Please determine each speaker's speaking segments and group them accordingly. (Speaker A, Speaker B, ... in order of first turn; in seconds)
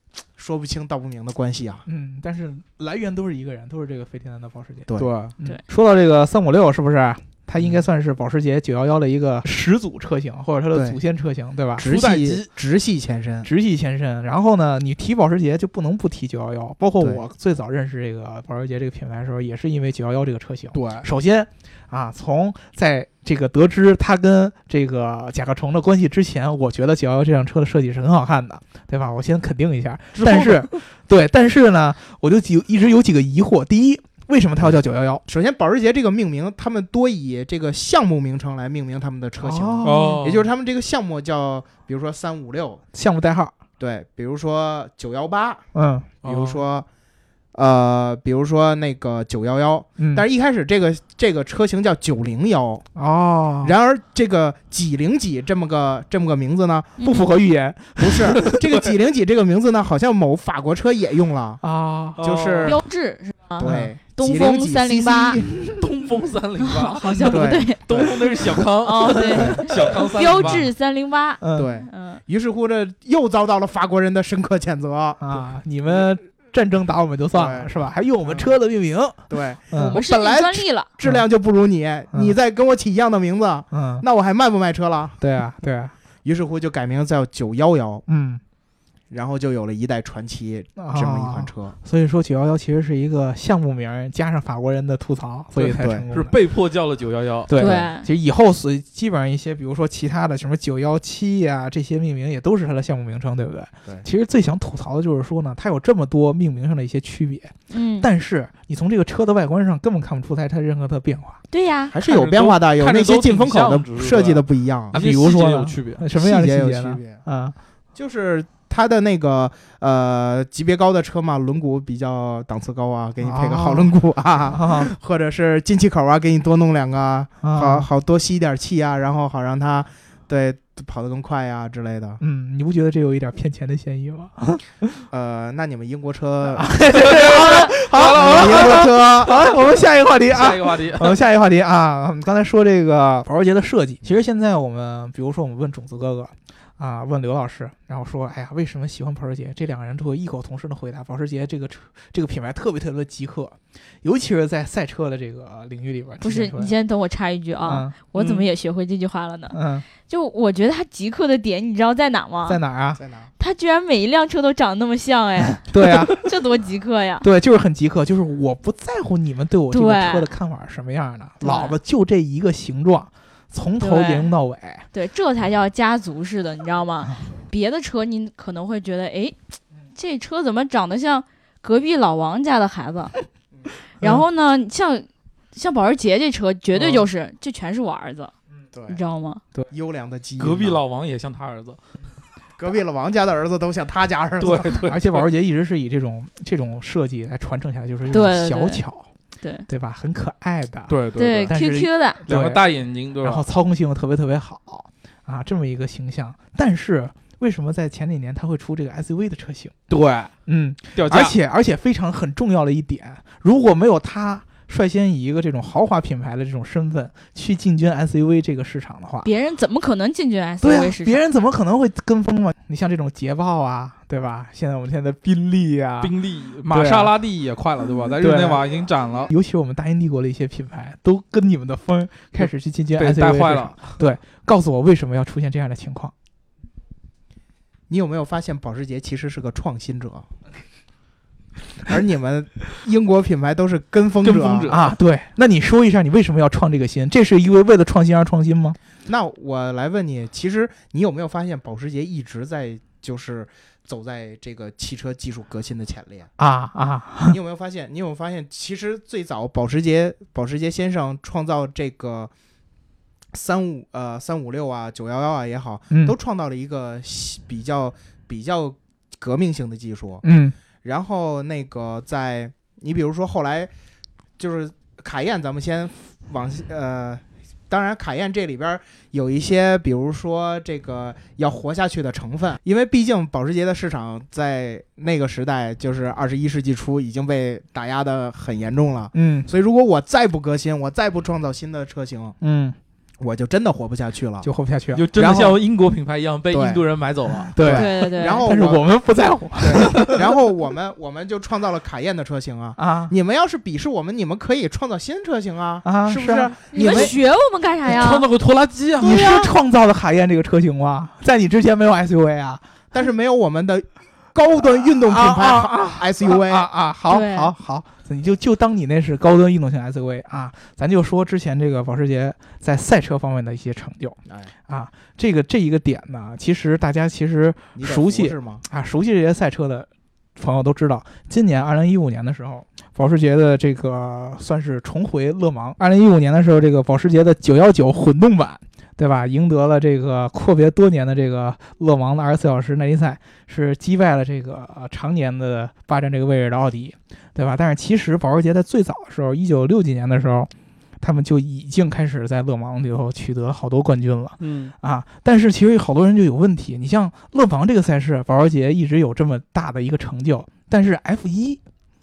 Speaker A: 0.3-1.8, 4.9-5.1, 10.7-11.0, 11.8-13.5, 35.2-42.8, 43.8-45.6, 46.2-46.9, 47.5-52.9, 53.6-57.0, 58.0-61.6, 62.2-62.8, 63.6-65.5, 67.2-68.1, 71.5-75.4, 77.3-77.7, 78.2-78.5, 79.3-85.2, 86.2-88.0, 89.1-91.8, 95.6-96.0, 111.9-115.0, 116.1-117.2, 117.9-132.2, 135.1-137.4, 137.9-139.4, 163.0-163.3, 188.7-189.0, 189.7-190.8, 192.6-194.8, 237.9-240.3, 241.8-244.7, 249.1-256.3, 257.3-262.3, 263.3-270.2, 270.8-273.7, 274.4-292.4, 293.2-294.5, 295.1-295.6, 296.5-296.8, 297.5-298.9, 299.6-307.1, 312.9-316.7, 327.8-328.6
Speaker B: 1.9-11.8, 13.4-35.2, 39.4-40.2, 42.9-43.5, 45.7-46.1, 50.0-50.2, 52.9-53.7, 57.0-58.6, 61.6-62.2, 63.6-63.9, 65.4-65.8, 69.3-69.7, 71.4-71.7, 75.2-80.0, 83.7-84.0, 85.2-85.9, 88.1-88.4, 90.8-96.4, 97.5-111.4, 114.9-117.5, 123.2-123.9, 124.5-124.9, 127.4-127.9, 132.2-135.0, 136.5-156.7, 157.6-158.0, 159.5-159.8, 162.4-163.0, 165.6-166.3, 167.2-174.9, 186.8-187.0, 194.8-199.1, 199.7-202.6, 203.2-209.7, 210.4-219.3, 220.6-226.1, 226.7-227.1, 228.2-228.6, 229.3-236.1, 244.7-248.8, 256.4-257.4, 270.2-270.5, 289.1-289.5, 292.4-292.8, 294.4-295.1, 297.5-300.2, 302.8-303.1, 305.8-307.1, 309.0-312.6, 315.0-361.6
Speaker C: 5.0-5.3, 11.8-12.5, 20.7-21.0, 30.1-30.7, 39.8-40.5, 46.2-46.6, 62.2-62.8, 65.8-70.7, 95.6-97.5, 112.0-116.0, 137.0-138.8, 140.2-141.2, 190.4-191.8, 194.4-195.3, 200.9-201.5, 202.2-203.4, 209.9-210.3, 210.9-211.3, 226.0-229.3, 232.4-234.0, 244.2-244.9, 294.9-297.5, 307.9-309.3, 354.4-354.7
Speaker D: 57.0-57.3, 62.6-65.4, 66.6-72.2, 79.8-80.9, 97.5-98.1, 107.7-108.1, 111.5-111.9, 156.2-162.6, 163.4-167.2, 169.7-170.3, 171.4-171.8, 173.8-174.3, 174.9-179.3, 179.9-183.1, 184.0-188.3, 188.9-189.4, 198.1-198.8, 199.4-199.7, 201.2-202.2, 219.2-221.2, 297.7-298.4, 306.7-308.3, 309.0-309.5, 317.1-317.5